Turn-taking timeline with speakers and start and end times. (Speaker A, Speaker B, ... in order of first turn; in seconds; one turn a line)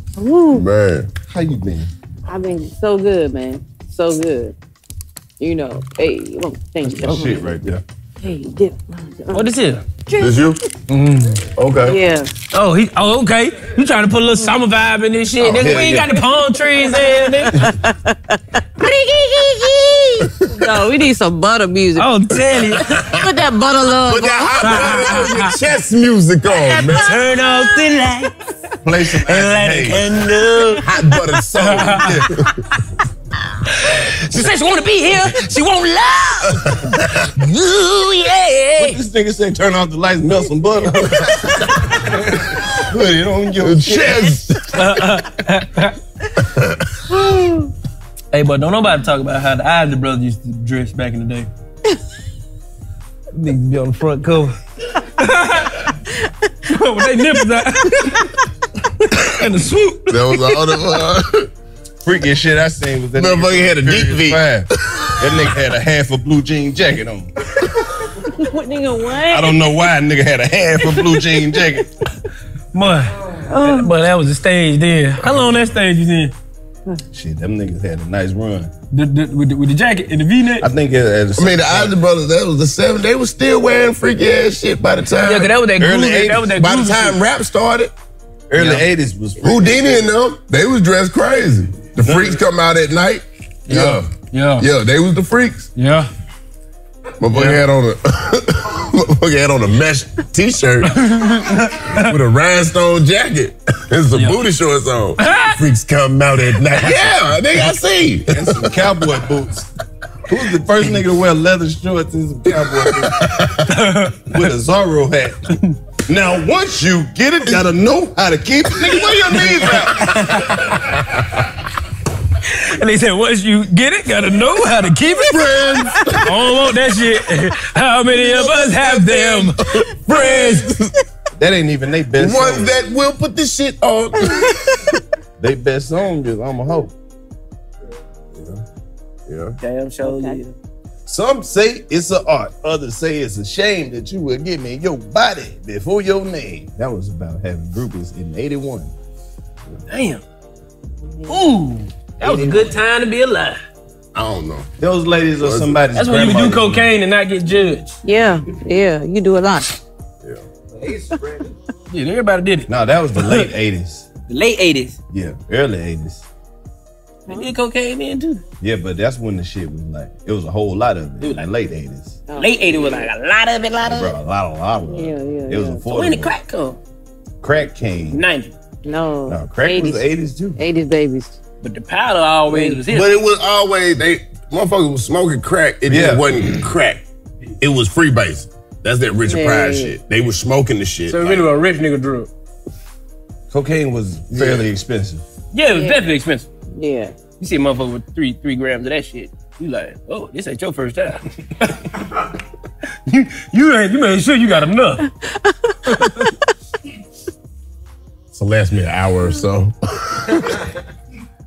Speaker A: 0.1-0.6
Speaker B: 0.5-1.1
Speaker C: 1.3-1.9
Speaker A: 2.3-4.5
Speaker A: 5.4-7.5
Speaker C: 6.8-7.8
Speaker A: 8.2-9.5
Speaker D: 9.3-9.8
Speaker A: 10.1-10.4
Speaker B: 10.2-10.6
Speaker D: 10.9-11.4
Speaker C: 11.5-12.0
Speaker A: 11.8-12.3
Speaker D: 12.5-17.6
Speaker C: 15.4-16.1
Speaker A: 16.9-18.6
Speaker D: 18.8-20.3
Speaker A: 20.5-22.1
Speaker D: 21.9-23.0
Speaker A: 23.2-25.3
Speaker B: 24.1-27.2
Speaker D: 24.6-25.5
Speaker D: 26.6-32.3
Speaker A: 26.7-27.6
Speaker C: 28.8-30.8
Speaker B: 30.8-32.6
Speaker C: 31.6-32.3
Speaker D: 33.6-39.0
Speaker B: 36.5-37.3
Speaker C: 38.8-44.4
Speaker D: 41.6-42.1
Speaker B: 42.1-42.6
Speaker B: 43.6-45.1
Speaker D: 44.7-46.0
Speaker B: 46.4-46.8
Speaker A: 47.1-47.7
Speaker D: 48.3-51.5
Speaker D: 53.3-54.5
Speaker D: 55.2-55.9
Speaker D: 56.7-58.3
Speaker D: 59.1-60.7
Speaker B: 60.1-61.5
Speaker C: 62.0-64.7
Speaker B: 63.1-65.5
Speaker C: 65.2-67.3
Speaker A: 68.1-69.7
Speaker C: 69.3-71.9
Speaker A: 71.0-71.6
Speaker D: 72.7-76.3
Speaker A: 73.5-73.9
Speaker C: 77.1-78.7
Speaker D: 78.9-80.7
Speaker C: 80.6-81.9
Speaker B: 81.4-85.5
Speaker D: 85.2-87.2
Speaker C: 85.8-86.6
Speaker B: 86.5-87.9
Speaker C: 88.5-90.1
Speaker B: 88.5-88.8
Speaker B: 89.4-95.7
Speaker C: 92.0-92.4
Speaker D: 93.7-94.7
Speaker D: 95.8-96.1
Speaker B: 97.2-109.1
Speaker D: 97.3-97.6
Speaker D: 100.9-102.2
Speaker D: 104.1-104.4
Speaker D: 105.2-105.6
Speaker C: 108.3-109.7
Speaker C: 110.3-113.7
Speaker B: 112.4-113.6
Speaker D: 113.7-114.4
Speaker C: 114.3-115.4
Speaker C: 116.0-120.2
Speaker D: 118.8-121.4
Speaker D: 122.4-130.5
Speaker B: 125.2-126.6
Speaker B: 128.1-130.9
Speaker A: 130.1-130.4
Speaker C: 131.4-132.7
Speaker B: 132.1-135.0
Speaker C: 135.4-136.9
Speaker B: 138.3-138.6
Speaker B: 139.3-139.6
Speaker D: 139.6-140.6
Speaker A: 140.0-140.4
Speaker C: 141.1-148.9
Speaker D: 149.9-150.2
Speaker A: 151.2-151.5
Speaker D: 151.3-153.6
Speaker C: 152.2-152.7
Speaker B: 154.1-154.7
Speaker C: 154.8-156.9
Speaker B: 155.4-155.8
Speaker D: 155.9-158.0
Speaker A: 158.0-159.7
Speaker D: 161.9-163.5
Speaker C: 162.7-164.1
Speaker D: 164.3-165.0
Speaker C: 165.1-166.2
Speaker D: 167.3-168.4
Speaker C: 168.6-172.2
Speaker D: 171.2-171.5
Speaker A: 172.3-173.1
Speaker D: 172.3-174.1
Speaker C: 173.8-176.3
Speaker A: 174.8-175.8
Speaker D: 175.9-176.8
Speaker C: 177.4-178.2
Speaker D: 178.1-178.5
Speaker A: 178.8-180.0
Speaker C: 179.3-180.6
Speaker A: 180.6-181.4
Speaker D: 181.6-183.1
Speaker A: 182.5-182.8
Speaker B: 182.8-187.0
Speaker C: 185.9-186.3
Speaker B: 187.6-191.4
Speaker A: 189.2-189.9
Speaker D: 191.1-192.3
Speaker C: 193.5-195.2
Speaker B: 194.3-194.7
Speaker D: 195.5-196.5
Speaker A: 195.7-196.1
Speaker A: 196.7-197.1
Speaker D: 197.4-202.3
Speaker D: 203.1-205.1
Speaker A: 205.4-206.3
Speaker D: 205.9-206.3
Speaker B: 208.3-210.7